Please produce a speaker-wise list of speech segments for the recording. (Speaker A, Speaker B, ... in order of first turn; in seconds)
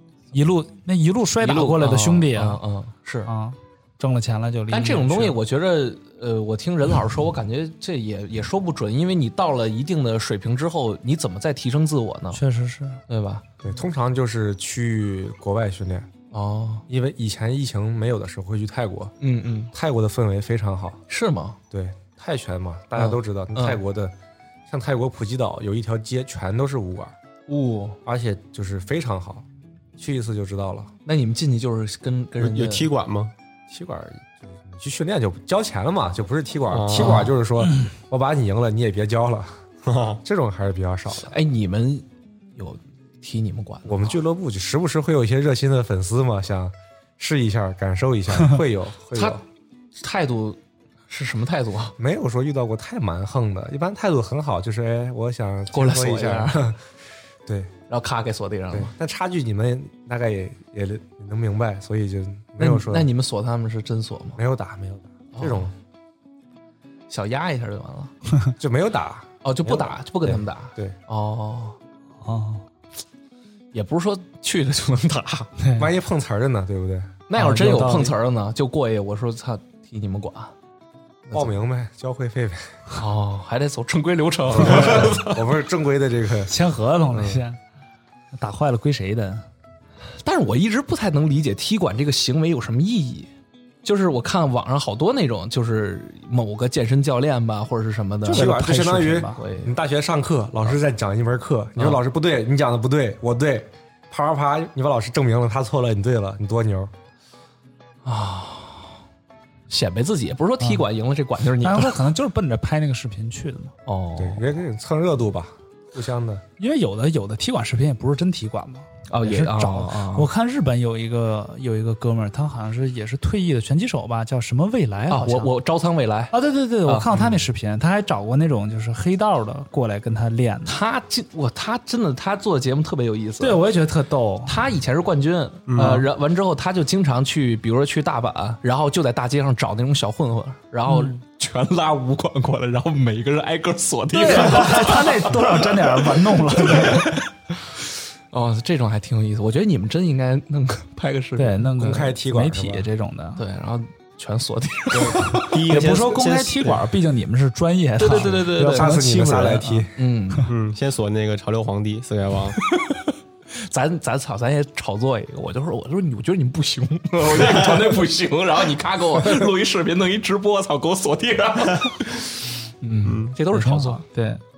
Speaker A: 0.3-2.6, 3.2-5.4, 12.3-13.0, 72.2-72.6, 75.6-75.9, 77.3-78.1, 86.5-87.6, 88.3-89.4, 98.2-99.4, 111.6-113.7, 116.6-125.5, 126.3-130.8, 133.4-134.6, 135.8-136.1, 140.9-141.2, 144.1-147.2, 151.3-153.4, 155.2-160.4, 173.5-174.4
Speaker B: 1.4-3.3, 4.7-12.4, 13.1-13.4, 16.3-16.8, 19.2-19.7, 21.1-21.6, 22.9-23.8, 27.5-28.0, 31.1-32.9, 37.0-37.3, 41.3-42.0, 42.5-44.2, 49.1-49.4, 50.0-51.9, 55.7-56.6, 57.9-58.9, 62.6-64.4, 65.3-65.7, 67.1-68.1, 69.4-71.8, 73.7-75.5, 77.3-80.5, 81.3-81.5, 82.9-85.4, 90.2-93.3, 93.8-99.7, 108.0-109.0, 109.7-112.0, 113.8-114.5, 119.1-120.3, 125.1-127.1, 130.7-133.6, 134.4-145.3, 146.5-147.2, 148.3-151.7, 153.4-155.5, 158.0-158.9, 159.9-160.5, 162.6-172.2, 172.8-174.0
Speaker C: 13.6-16.1, 16.9-19.1, 19.7-21.0, 21.7-24.1, 24.7-27.1, 28.0-29.4, 30.0-30.9, 33.7-39.6, 40.2-41.3, 43.8-49.4, 52.0-56.8, 57.5-57.7, 58.7-63.1, 64.3-65.7, 68.6-71.0, 75.8-77.1, 81.3-82.8, 84.5-86.5, 87.1-87.4, 98.3-106.9, 114.2-116.4, 151.8-152.9, 158.7-159.9
Speaker D: 32.4-33.3, 36.7-37.3, 39.8-40.2, 135.7-136.0, 154.9-156.8, 160.5-162.6, 173.0-173.3